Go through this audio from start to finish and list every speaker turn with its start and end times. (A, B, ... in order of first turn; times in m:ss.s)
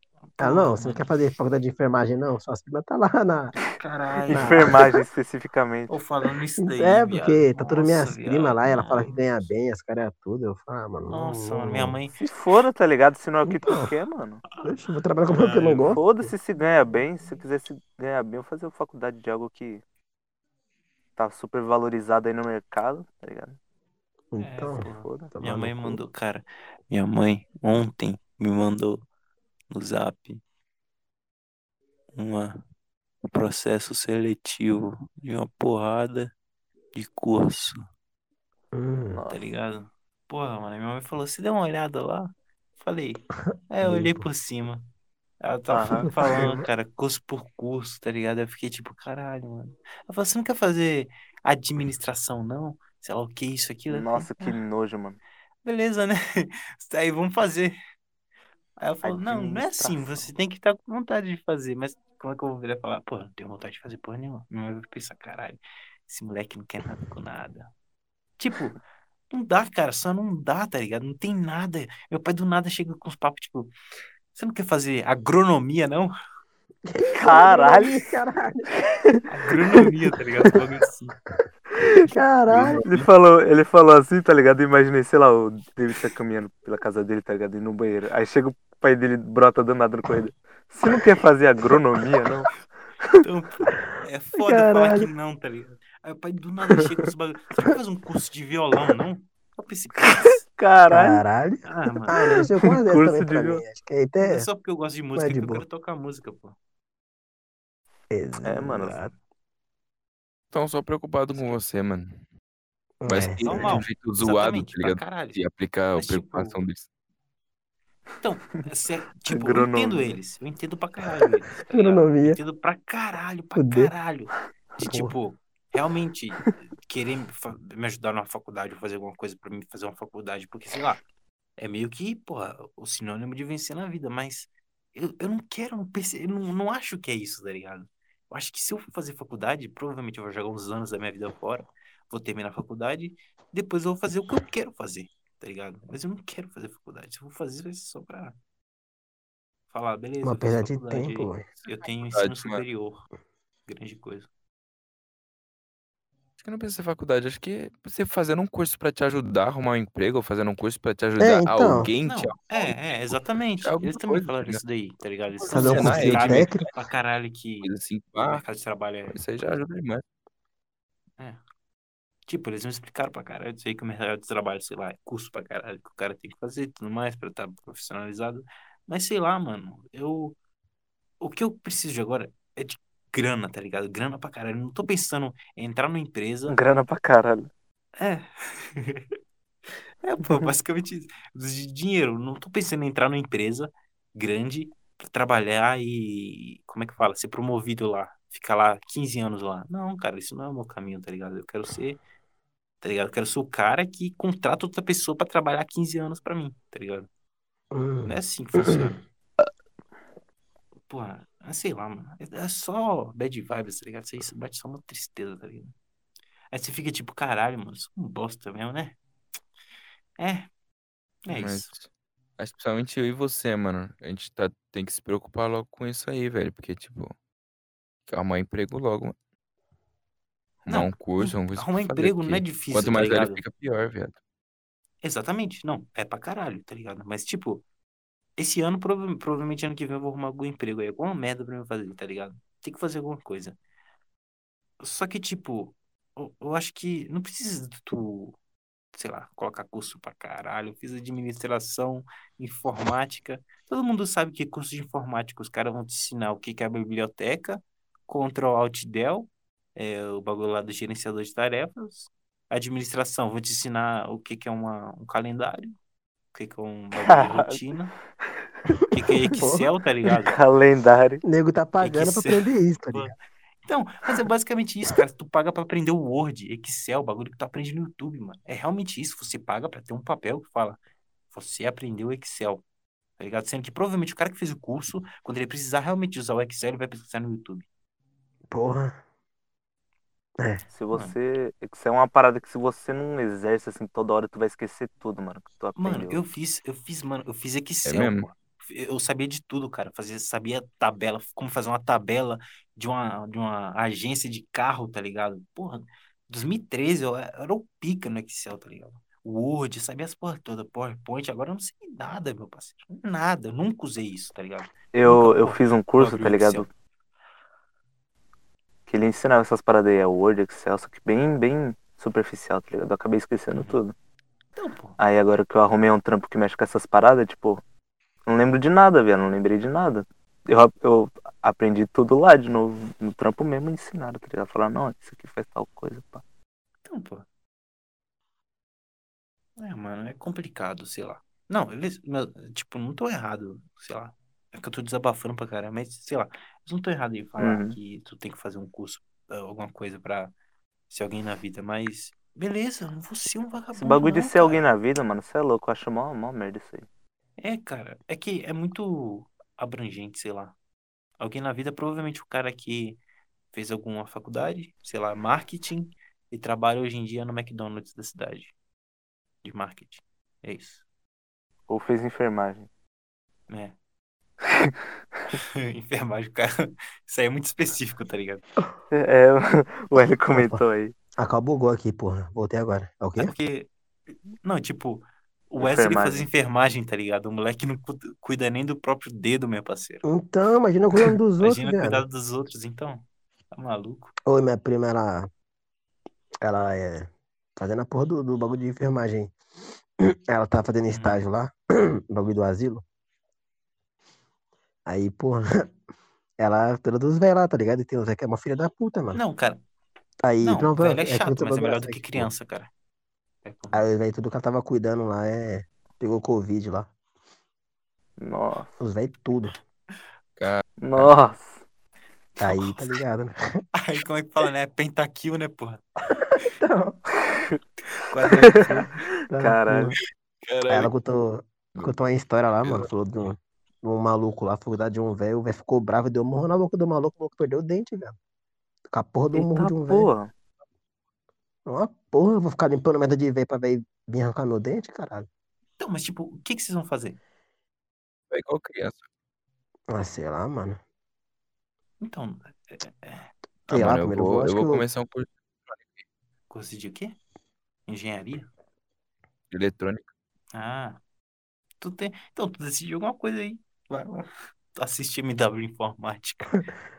0:00.4-0:01.1 A
0:00.4-0:03.6 B
0:03.8-0:04.8 A
0:04.3-0:04.9 B
0:04.3-0:05.9 C
0:05.9-0:09.2 A
0:06.6-0:12.0 B
0:11.1-0:12.2 A
0:12.2-0:14.4 C
0:13.5-0:13.9 B
0:14.6-0:16.0 A
0:14.6-0:16.3 B
0:15.9-0:19.8 C
0:21.2-0:23.6 C
0:24.3-0:26.0 B
0:24.4-0:29.0 A
0:24.9-0:25.3 C
0:29.7-0:30.4 A
0:32.2-0:32.6 A
0:33.3-0:36.3 A
0:36.9-0:37.8 A
0:38.7-0:39.2 B
0:39.1-0:39.4 C
0:39.3-0:44.9 A
0:43.8-0:44.3 B
0:45.4-0:54.6 A
0:45.7-0:46.1 C
0:46.2-0:46.7 B
0:53.9-0:55.2 C
0:55.6-0:57.8 A
0:58.8-1:07.7 A
0:59.0-1:00.3 C
1:08.4-1:08.8 A
1:09.3-1:13.7 A
1:14.4-1:16.1 A
1:16.9-1:18.7 B
1:17.2-1:18.1 C
1:19.3-1:21.2 A
1:22.0-1:22.8 B
1:22.5-1:23.1 D
1:22.8-1:32.5 C
1:33.2-1:40.4 A
1:34.4-1:35.1 B
1:40.2-1:41.2 C
1:40.9-1:44.5 B
1:41.6-1:42.2 A
1:42.1-1:43.6 C
1:44.2-1:46.6 A
1:45.2-1:45.6 B
1:48.1-1:49.1 B
1:48.4-1:49.1 C
1:50.5-1:52.2 D
1:53.0-1:53.8 B
1:53.1-1:56.9 D
1:53.4-1:55.4 A
1:56.0-1:56.6 A
1:58.2-2:11.0 A
1:59.3-2:00.2 C
2:01.7-2:02.4 B
2:03.6-2:03.9 B
2:04.8-2:05.2 B
2:11.6-2:28.4 A
2:29.7-2:33.1 A
2:30.2-2:31.5 B
2:32.1-2:32.6 D
2:33.7-2:34.3 A
2:36.4-2:44.6 D
2:41.2-2:41.9 B
2:42.0-2:47.7 A
2:45.4-2:46.7 D
2:45.5-2:46.7 B
2:47.6-2:48.4 D
2:48.2-2:49.2 A
2:49.1-2:50.0 D
2:52.3-3:00.4 A
3:01.2-3:06.6 A
3:06.5-3:07.5 C
3:08.0-3:09.1 A
3:10.0-3:22.0 A
3:22.8-3:27.1 A
3:27.7-3:28.9 B
3:28.0-3:29.0 A
3:30.9-3:35.7 A
3:36.5-3:39.0 A
3:40.2-3:40.5 A
3:41.2-3:41.7 A
3:41.3-3:41.9 D
3:42.4-3:47.2 D
3:48.1-3:49.2 D
3:50.6-3:54.2 D
3:50.7-3:53.4 A
3:55.0-3:57.6 A
3:58.4-4:03.6 A
4:04.8-4:08.4 A
4:09.0-4:25.8 A
4:26.3-4:27.9 A
4:27.0-4:27.6 C
4:28.7-4:29.7 B
4:28.9-4:30.4 A
4:30.2-4:31.2 C
4:31.2-4:33.1 B
4:31.8-4:40.8 A
4:41.3-4:42.6 A
4:43.2-4:47.7 A
4:48.5-4:49.0 B
4:50.4-4:50.6 B
4:50.7-4:56.2 C
4:55.8-5:16.7 A
4:57.9-4:58.3 D
5:14.9-5:16.7 C
5:18.9-5:23.9 C
5:24.6-5:25.0 A
5:25.0-5:27.6 C
5:28.3-5:36.2 C
5:36.8-5:37.3 A
5:39.6-5:50.3 A
5:47.4-5:47.8 C
5:50.9-5:54.6 A
5:53.8-5:56.9 C
5:57.4-6:00.6 A
6:01.2-6:03.0 A
6:03.5-6:08.5 A
6:09.4-6:10.8 A
6:11.7-6:12.7 C
6:13.5-6:13.8 A
6:15.3-6:18.4 A
6:18.9-6:20.9 C
6:20.3-6:20.6 B
6:21.2-6:23.3 B
6:23.2-6:23.7 A
6:24.4-6:30.1 A
6:25.6-6:26.3 C
6:30.0-6:32.0 B
6:31.0-6:34.1 A
6:34.3-6:35.3 B
6:36.4-6:39.3 B
6:40.0-6:42.8 B
6:40.9-6:41.2 A
6:44.9-6:45.7 B
6:46.4-6:49.2 B
6:49.1-6:49.6 A
6:50.2-6:52.3 B
6:50.4-6:52.7 A
6:53.4-6:53.9 A
6:53.7-6:56.9 B
6:58.2-6:58.7 C
6:58.8-6:59.6 B
7:00.4-7:01.1 D
7:00.8-7:01.6 C
7:02.4-7:02.9 A
7:02.4-7:03.6 B
7:03.8-7:05.8 A
7:06.2-7:07.0 B
7:08.1-7:09.1 A
7:08.2-7:08.6 C
7:09.3-7:10.0 B
7:09.3-7:10.0 C
7:10.5-7:10.9 D
7:10.7-7:18.2 B
7:12.6-7:12.9 D
7:18.9-7:20.1 B
7:19.3-7:20.3 C
7:21.7-7:25.3 B
7:25.8-7:27.2 A
7:28.3-7:29.1 D
7:29.9-7:30.8 B
7:32.0-7:33.3 A
7:33.7-7:36.0 D
7:33.7-7:34.8 B
7:36.5-7:37.2 A
7:37.9-7:38.5 A
7:39.5-7:40.1 D
7:40.5-7:41.0 A
7:41.8-7:46.6 A